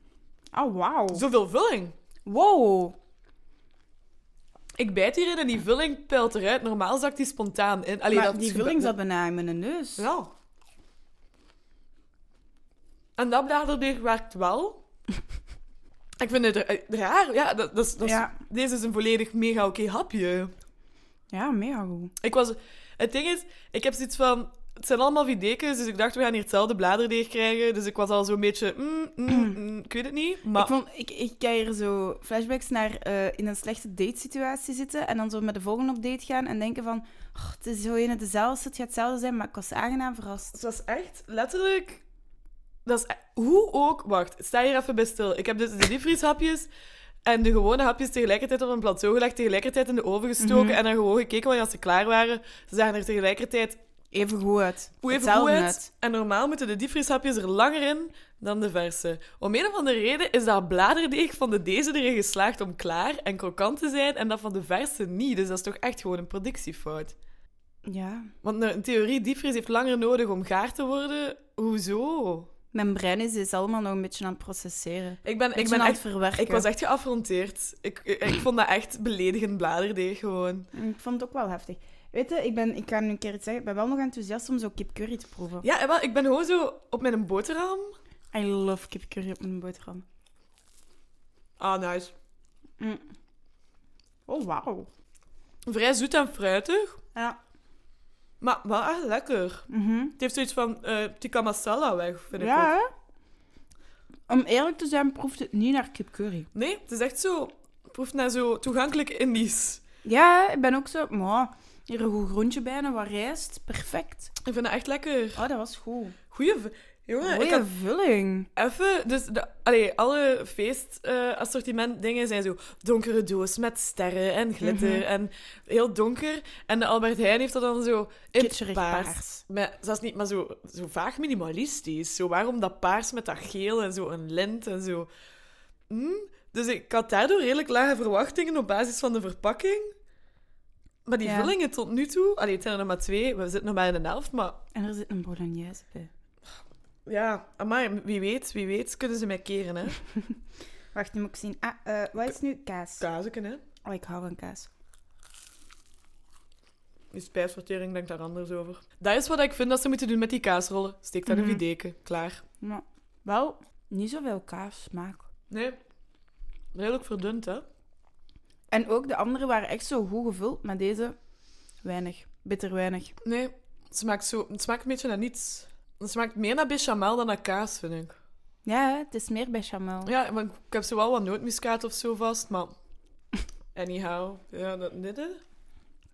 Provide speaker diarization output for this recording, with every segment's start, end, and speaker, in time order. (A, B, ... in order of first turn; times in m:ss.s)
0:00.5-0:01.2 A
0:01.1-0:01.9 B
0:02.2-0:03.0 A
0:04.8-0:08.9 B
0:08.1-0:10.1 A
0:10.0-0:10.3 B
0:13.2-0:14.8 B
0:16.2-0:20.5 B
0:18.0-0:18.4 A
0:21.3-0:22.1 A
0:22.2-0:30.7 B
0:29.3-0:29.5 A
0:30.5-0:40.6 A
0:40.5-0:42.0 B
0:42.8-0:46.7 B
0:47.2-0:53.8 B
0:50.4-0:50.8 A
0:54.1-0:55.9 A
0:55.0-1:07.1 B
1:07.8-1:08.3 A
1:08.4-1:12.5 B
1:12.7-1:16.6 A
1:15.2-1:20.7 B
1:20.7-1:25.7 A
1:25.6-1:27.9 B
1:28.3-1:30.0 A
1:31.6-1:32.1 B
1:32.8-1:33.0 A
1:34.3-1:34.9 A
1:35.6-1:37.0 B
1:38.4-1:39.6 B
1:39.7-1:40.2 A
1:40.2-1:42.7 B
1:42.4-1:42.9 A
1:44.3-1:46.5 A
1:46.5-1:49.8 B
1:50.0-1:54.3 A
1:54.4-1:55.4 B
1:55.4-1:56.2 A
1:56.3-1:57.7 B
1:57.2-1:58.5 A
1:58.6-2:15.1 B
2:04.6-2:05.0 A
2:08.4-2:09.4 A
2:15.9-2:19.9 B
2:21.0-2:24.6 B
2:21.2-2:21.5 A
2:24.7-2:26.1 A
2:27.0-2:30.0 B
2:30.9-2:33.0 A
2:33.0-2:33.6 B
2:33.8-2:34.7 A
2:37.1-2:42.4 B
2:41.3-2:41.6 A
2:42.6-2:45.3 A
2:45.5-2:45.8 B
2:46.7-2:47.6 B
2:48.7-2:51.2 A
2:51.8-2:53.2 A
2:53.2-2:58.2 B
2:58.6-3:00.1 A
3:00.0-3:02.7 B
3:03.7-3:05.4 B